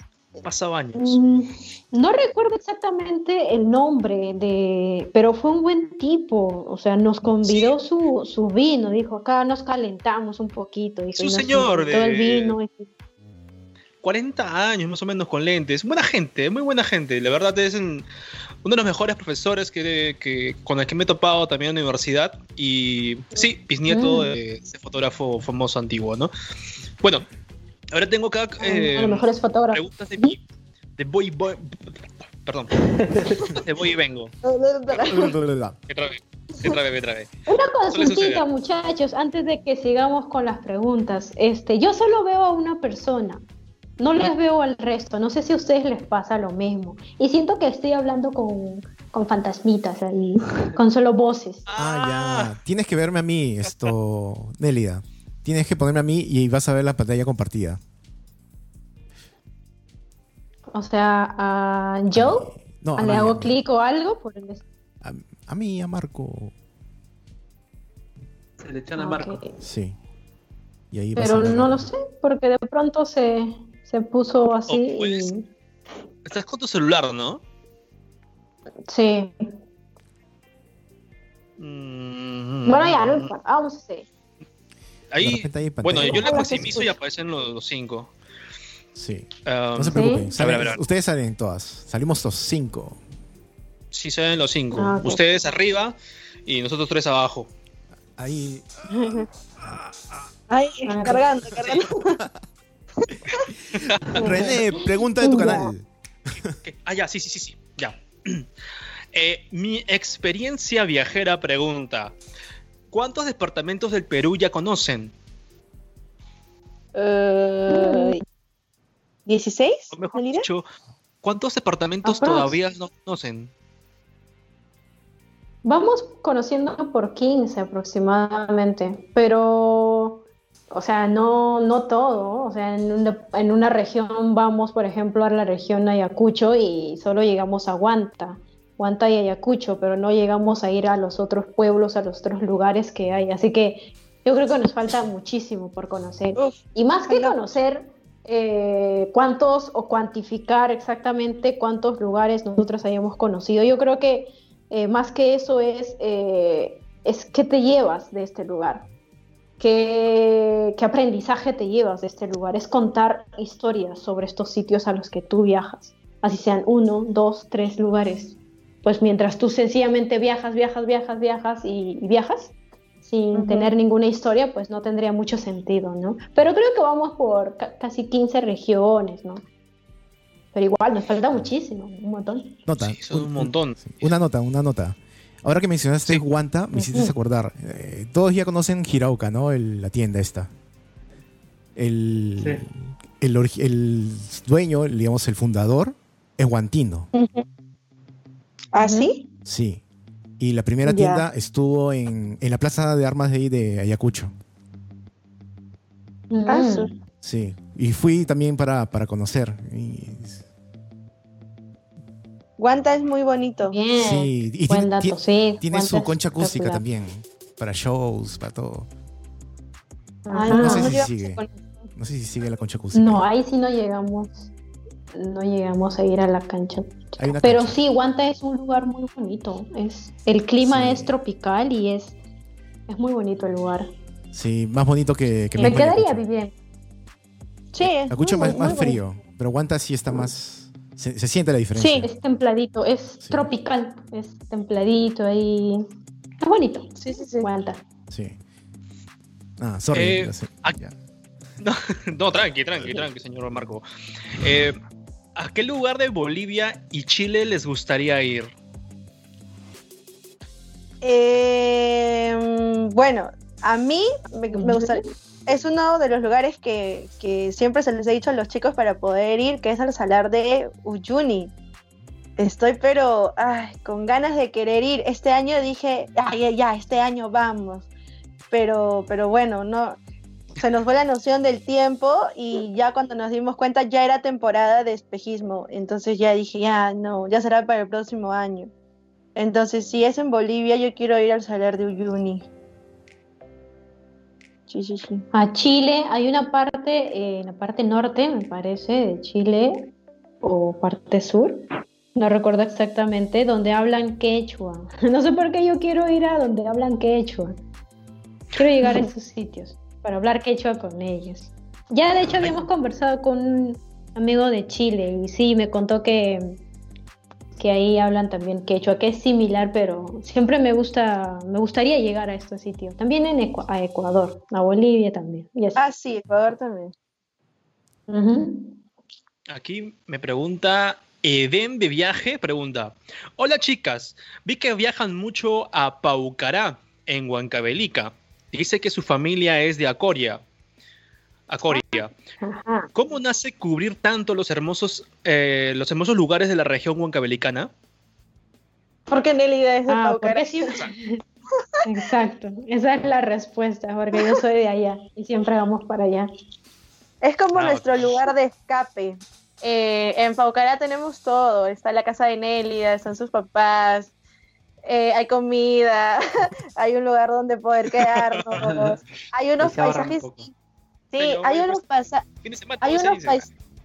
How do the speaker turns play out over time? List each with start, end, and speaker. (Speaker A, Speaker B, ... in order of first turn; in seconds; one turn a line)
Speaker A: 0.4-1.2
Speaker B: 0.9-12.9
Speaker A: 7.4-7.7
Speaker A: 11.2-12.6
Speaker A: 14.0-18.1
Speaker A: 18.6-26.3
Speaker B: 23.9-24.3
Speaker A: 27.0-27.3
Speaker A: 27.9-30.4
Speaker B: 28.6-30.3
Speaker A: 31.0-31.9
Speaker A: 32.4-32.8
Speaker C: 32.8-33.5
Speaker A: 33.4-34.3
Speaker D: 34.4-35.3
Speaker E: 35.0-35.8
Speaker A: 35.9-37.3
Speaker B: 37.5-43.4
Speaker A: 37.9-38.4
Speaker B: 44.0-51.6
Speaker A: 51.7-52.5
Speaker E: 51.8-57.8
Speaker A: 53.6-53.9
Speaker B: 60.7-64.6
Speaker E: 62.1-63.5
Speaker E: 65.0-66.5
Speaker C: 68.6-69.4
Speaker B: 69.0-69.5
Speaker E: 69.6-70.0
Speaker E: 70.9-71.9
Speaker B: 71.2-75.5
Speaker A: 74.7-75.3
Speaker A: 76.2-77.4
Speaker B: 78.9-79.5
Speaker A: 81.6-83.3
Speaker B: 82.7-84.1
Speaker A: 85.1-88.1
Speaker E: 85.2-86.7
Speaker B: 86.0-86.9
Speaker E: 88.9-93.0
Speaker A: 89.5-90.8
Speaker B: 89.9-90.3
Speaker A: 93.9-97.5
Speaker B: 94.7-95.2
Speaker E: 98.2-98.7
Speaker B: 98.9-99.2
Speaker D: 100.5-102.2
Speaker B: 100.8-101.2
Speaker E: 103.1-106.5
Speaker A: 103.8-104.2
Speaker B: 104.2-105.7
Speaker A: 106.6-108.5
Speaker A: 109.1-112.2
Speaker A: 112.9-115.1
Speaker D: 116.9-118.2
Speaker B: 117.7-118.2
Speaker D: 119.3-120.5
Speaker A: 119.9-120.7
Speaker A: 121.2-123.5
Speaker B: 122.0-122.5
Speaker B: 125.6-158.9
Speaker D: 147.1-147.4
Speaker B: 159.6-172.5
Speaker B: 173.0-179.4
Speaker D: 173.3-173.7
Speaker B: 180.5-182.6
Speaker E: 182.7-190.5
Speaker A: 182.8-183.9
Speaker B: 186.8-187.1
Speaker E: 191.8-197.1
Speaker D: 197.1-197.4
Speaker D: 198.7-199.2
Speaker B: 198.8-199.1
Speaker E: 199.4-199.8
Speaker E: 200.4-204.3
Speaker D: 200.8-201.2
Speaker B: 206.3-206.9
Speaker D: 206.5-206.9
Speaker E: 207.2-210.4
Speaker D: 212.6-213.8
Speaker B: 213.6-216.8
Speaker E: 213.9-218.9
Speaker B: 220.2-221.1
Speaker D: 220.3-221.2
Speaker E: 220.5-223.2
Speaker B: 222.9-224.5
Speaker B: 225.1-232.2
Speaker E: 227.2-227.8
Speaker E: 230.6-231.1
Speaker B: 232.9-233.9
Speaker E: 234.3-236.2
Speaker B: 235.6-236.5
Speaker D: 237.7-239.0
Speaker E: 237.8-242.1
Speaker B: 238.2-238.9
Speaker D: 241.8-242.1
Speaker B: 242.0-245.8
Speaker E: 243.2-243.5
Speaker B: 246.4-247.8
Speaker D: 247.0-247.4
Speaker E: 248.1-248.4
Speaker E: 249.6-250.9
Speaker A: 249.9-250.7
Speaker A: 251.6-253.8
Speaker A: 254.4-254.8
Speaker A: 255.3-258.5
Speaker D: 261.0-271.5
Speaker B: 264.5-265.1
Speaker D: 272.4-277.9
Speaker D: 278.5-280.0
Speaker D: 280.6-288.7
Speaker D: 289.4-292.4
Speaker D: 294.7-295.2
Speaker B: 295.3-299.9
Speaker B: 300.4-307.6
Speaker B: 308.5-316.6
Speaker B: 317.6-325.8
Speaker D: 325.8-326.9
Speaker B: 328.1-328.8
Speaker A: 329.5-340.4
Speaker A: 341.5-342.1
Speaker B: 342.4-342.9
Speaker A: 342.9-347.7
Speaker D: 349.1-350.8
Speaker B: 349.9-351.2
Speaker B: 351.8-356.3
Speaker D: 357.2-364.1
Speaker A: 357.5-358.0
Speaker D: 364.8-370.4
Speaker A: 368.0-368.6
Speaker C: 368.5-369.0
Speaker C: 369.6-370.5
Speaker D: 371.1-372.2
Speaker A: 371.2-371.8
Speaker A: 372.4-373.4
Speaker D: 372.8-373.4